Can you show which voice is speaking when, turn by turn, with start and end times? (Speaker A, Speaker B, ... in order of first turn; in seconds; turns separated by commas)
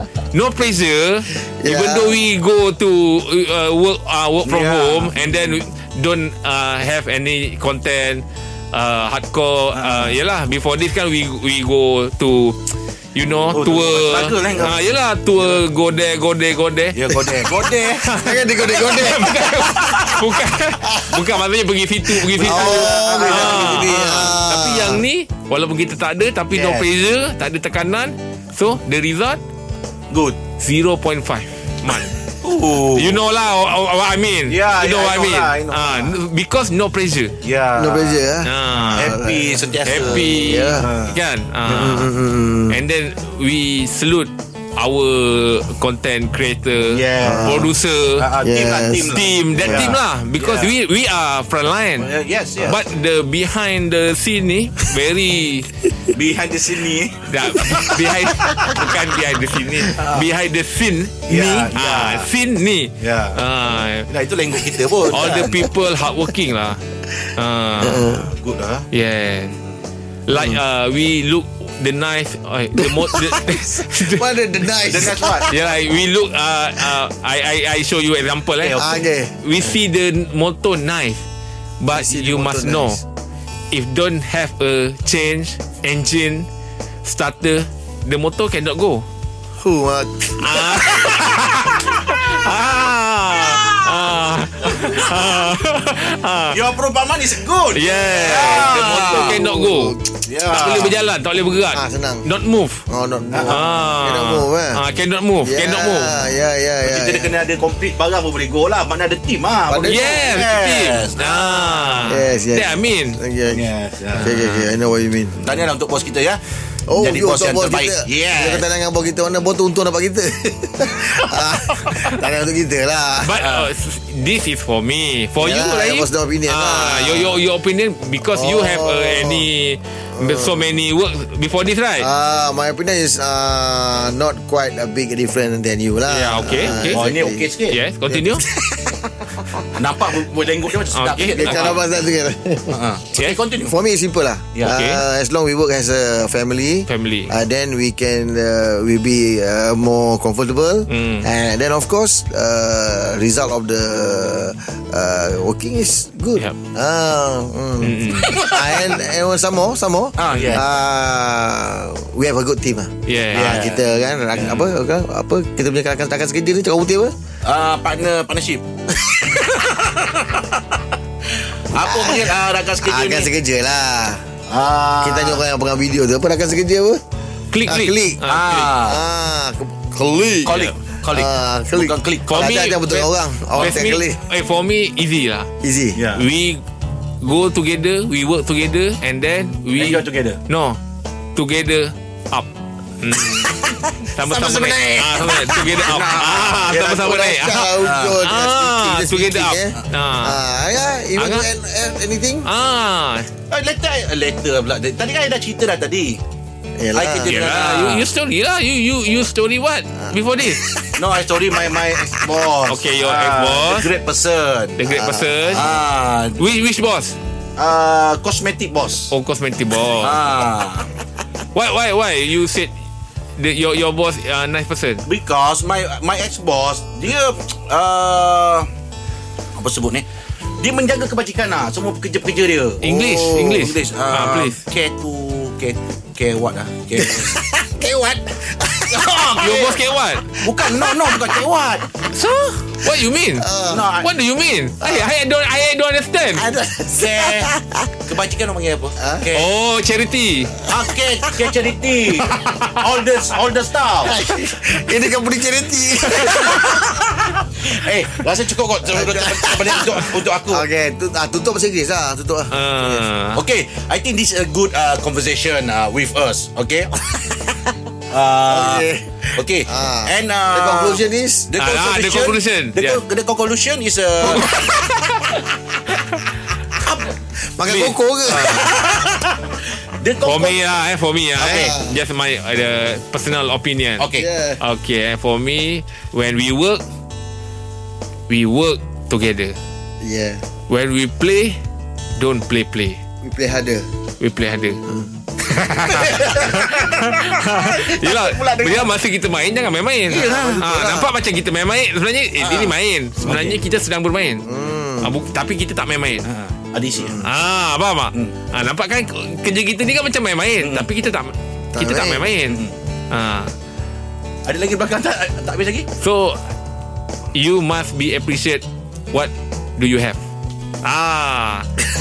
Speaker A: 0.3-12.6, Speaker B: 1.3-2.2, Speaker C: 4.5-5.6, Speaker C: 9.7-10.2, Speaker A: 13.2-17.0, Speaker C: 13.5-15.6, Speaker C: 16.9-18.1, Speaker A: 17.9-29.4, Speaker B: 18.1-21.3, Speaker C: 18.7-19.0, Speaker C: 19.6-20.2, Speaker B: 22.2-25.0, Speaker C: 22.4-24.4, Speaker C: 26.5-26.9, Speaker C: 30.1-30.4, Speaker A: 30.6-32.2, Speaker C: 32.4-33.2, Speaker A: 32.8-37.4, Speaker C: 34.5-36.2, Speaker C: 37.4-38.2, Speaker B: 37.7-40.9, Speaker A: 38.4-39.2, Speaker C: 38.9-41.2, Speaker A: 39.9-42.1, Speaker B: 41.7-42.8, Speaker A: 42.7-48.3, Speaker C: 46.9-47.6, Speaker B: 47.2-47.7, Speaker C: 48.2-50.7, Speaker B: 48.4-50.0, Speaker A: 49.0-52.1, Speaker C: 52.0-52.8, Speaker A: 52.6-55.7, Speaker C: 56.1-57.3, Speaker A: 57.3-64.1, Speaker C: 60.0-60.3, Speaker C: 61.3-62.3, Speaker C: 63.0-63.4, Speaker C: 64.1-65.7, Speaker A: 65.1-66.8, Speaker A: 67.3-68.2, Speaker B: 67.8-68.3, Speaker C: 68.0-68.8, Speaker A: 68.9-69.6, Speaker A: 70.3-74.7, Speaker B: 70.3-70.6, Speaker B: 72.8-75.5, Speaker C: 74.9-75.6, Speaker A: 75.4-81.2, Speaker C: 78.6-79.0, Speaker B: 78.8-79.4, Speaker A: 81.8-83.0, Speaker B: 81.9-83.0, Speaker A: 83.7-86.5, Speaker A: 87.0-89.0, Speaker B: 89.6-92.0, Speaker A: 90.4-96.6, Speaker C: 93.5-93.8, Speaker C: 94.6-95.5, Speaker C: 96.5-99.4, Speaker A: 97.7-100.0, Speaker B: 98.2-100.1, Speaker C: 100.2-101.0, Speaker A: 100.5-102.8, Speaker B: 101.7-102.3, Speaker B: 102.9-104.8, Speaker C: 103.3-103.6, Speaker A: 103.5-106.2, Speaker B: 105.4-107.3, Speaker C: 106.8-112.1, Speaker B: 109.7-110.5, Speaker A: 109.8-113.2, Speaker B: 112.1-113.7, Speaker C: 113.5-114.3, Speaker A: 114.2-114.7, Speaker B: 114.2-115.6, Speaker C: 115.4-116.4, Speaker B: 116.9-123.4, Speaker C: 117.0-118.7, Speaker A: 123.2-132.1, Speaker C: 123.3-123.7, Speaker B: 125.4-127.4, Speaker B: 128.3-129.5, Speaker B: 130.2-130.7, Speaker B: 132.0-137.5, Speaker A: 136.1-137.0, Speaker C: 136.7-137.8, Speaker A: 137.7-138.4, Speaker B: 138.1-139.7, Speaker C: 139.7-141.8, Speaker A: 140.9-141.8, Speaker B: 141.3-142.8, Speaker C: 142.7-143.8, Speaker B: 143.6-167.1, Speaker A: 144.7-145.0, Speaker A: 146.9-147.3, Speaker A: 150.9-151.3, Speaker A: 157.8-158.4, Speaker C: 158.1-158.7, Speaker C: 160.2-160.6, Speaker A: 160.3-160.6, Speaker A: 163.1-163.7, Speaker C: 163.3-163.8, Speaker C: 164.3-164.7, Speaker C: 167.4-168.6, Speaker B: 169.0-169.4, Speaker C: 169.5-170.7, Speaker C: 171.7-173.3, Speaker B: 171.8-174.2, Speaker C: 174.5-175.4, Speaker B: 175.0-177.0, Speaker A: 177.5-178.7, Speaker B: 177.7-178.2, Speaker C: 178.3-179.0, Speaker B: 178.8-184.2, Speaker C: 180.4-182.4, Speaker A: 182.3-185.5, Speaker C: 183.6-183.8, Speaker B: 185.6-186.0, Speaker C: 185.9-186.2, Speaker A: 186.2-186.6, Speaker A: 187.2-190.8, Speaker C: 189.8-190.4, Speaker A: 191.4-193.5, Speaker C: 193.4-197.2, Speaker A: 194.0-200.4, Speaker B: 196.8-202.5, Speaker C: 197.8-198.2, Speaker A: 201.2-201.5, Speaker A: 202.4-203.3, Speaker C: 203.5-206.2, Speaker B: 206.8-207.3, Speaker C: 206.9-208.1, Speaker A: 207.2-210.6, Speaker B: 210.1-211.0, Speaker C: 211.0-216.4, Speaker A: 212.7-213.9, Speaker A: 214.8-215.7, Speaker A: 216.4-217.2, Speaker C: 217.6-219.1, Speaker A: 219.1-220.2, Speaker C: 220.0-220.9, Speaker A: 221.5-222.7, Speaker A: 223.4-225.0, Speaker C: 225.1-228.7, Speaker C: 229.6-230.1, Speaker C: 230.6-237.3, Speaker A: 232.8-234.6, Speaker B: 232.8-233.7, Speaker B: 237.0-241.4, Speaker C: 238.9-239.8, Speaker A: 239.4-240.3, Speaker C: 240.4-241.9, Speaker B: 242.0-243.9, Speaker A: 242.8-246.5, Speaker C: 243.7-244.1, Speaker B: 244.8-245.1, Speaker B: 246.4-247.9, Speaker C: 246.9-247.5, Speaker C: 248.1-249.5, Speaker B: 249.0-249.3, Speaker A: 249.3-250.6, Speaker B: 250.6-251.5, Speaker C: 250.7-254.2, Speaker B: 252.2-252.6, Speaker B: 254.0-257.0, Speaker C: 256.1-260.7, Speaker B: 258.9-263.1, Speaker A: 262.5-263.4, Speaker C: 263.4-267.1, Speaker C: 268.1-274.9, Speaker B: 268.5-271.5, Speaker A: 271.6-273.0, Speaker A: 274.2-275.4, Speaker B: 277.5-279.4, Speaker A: 277.7-278.8, Speaker C: 278.6-279.1, Speaker C: 280.0-280.6, Speaker A: 280.2-284.1, Speaker B: 281.4-282.0, Speaker C: 281.4-281.7, Speaker C: 284.0-284.3, Speaker B: 284.1-284.6, Speaker A: 284.6-286.8, Speaker A: 288.3-289.6, Speaker B: 290.0-290.4, Speaker A: 290.7-291.6, Speaker A: 292.2-293.0, Speaker B: 293.2-293.9, Speaker A: 294.2-294.8, Speaker A: 295.4-304.5, Speaker C: 295.9-299.0, Speaker B: 296.0-296.7, Speaker C: 300.1-301.0, Speaker B: 300.3-301.1, Speaker C: 302.4-303.6, Speaker B: 304.5-305.2, Speaker A: 305.0-306.3, Speaker C: 306.3-307.2, Speaker B: 307.0-307.3, Speaker A: 307.2-313.5, Speaker C: 310.6-310.9, Speaker B: 311.7-312.3, Speaker C: 312.5-312.7, Speaker C: 314.5-315.9, Speaker A: 316.0-316.4, Speaker A: 317.3-320.2, Speaker A: 320.8-321.7